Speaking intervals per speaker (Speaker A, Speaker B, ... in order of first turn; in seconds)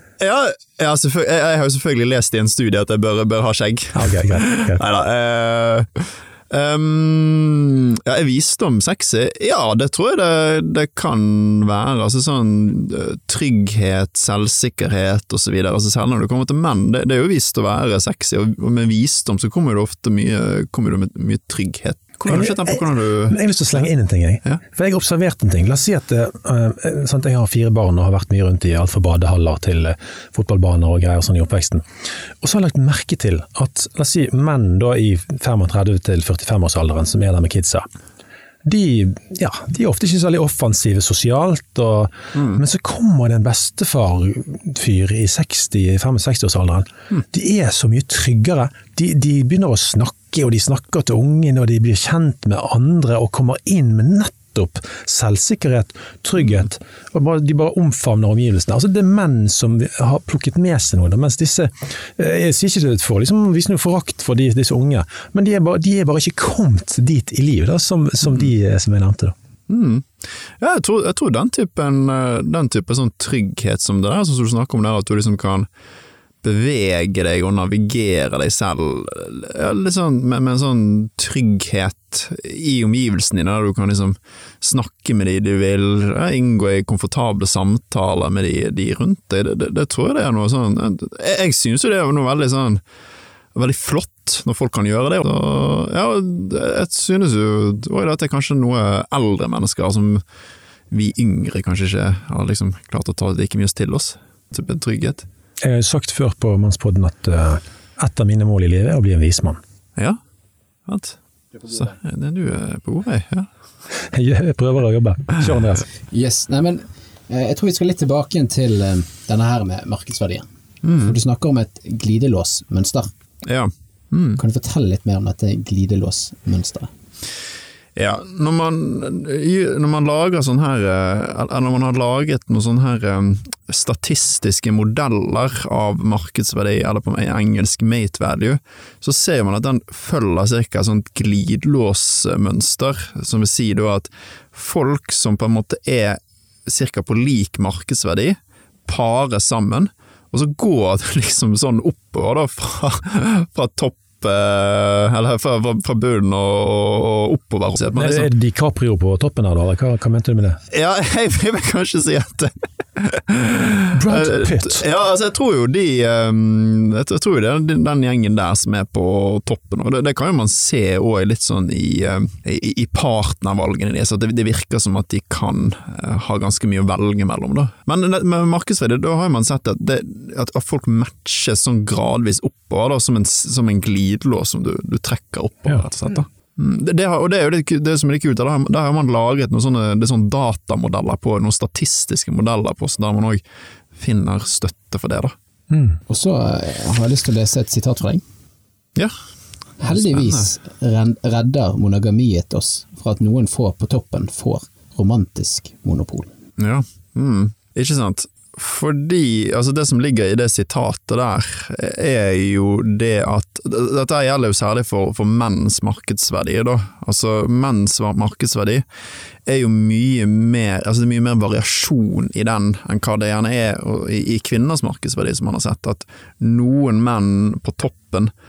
Speaker A: 0.2-23.8, 69.7-75.7, 76.4-92.8, 93.5-100.2, 100.9-105.2, 110.9-111.2, 111.7-113.5, 120.8-121.2, 123.4-124.4, 128.0-158.3, 160.7-193.4, 193.9-195.3, 199.9-200.5, 206.6-218.8, 219.4-228.3
Speaker B: 3.9-4.8, 22.3-31.9, 32.4-37.9, 38.6-69.3, 105.6-109.6, 114.0-115.9, 157.9-160.6, 163.9-164.8, 195.7-196.0
Speaker C: 116.1-120.5, 121.0-123.1, 124.4-126.9, 196.1-198.2, 199.8-206.3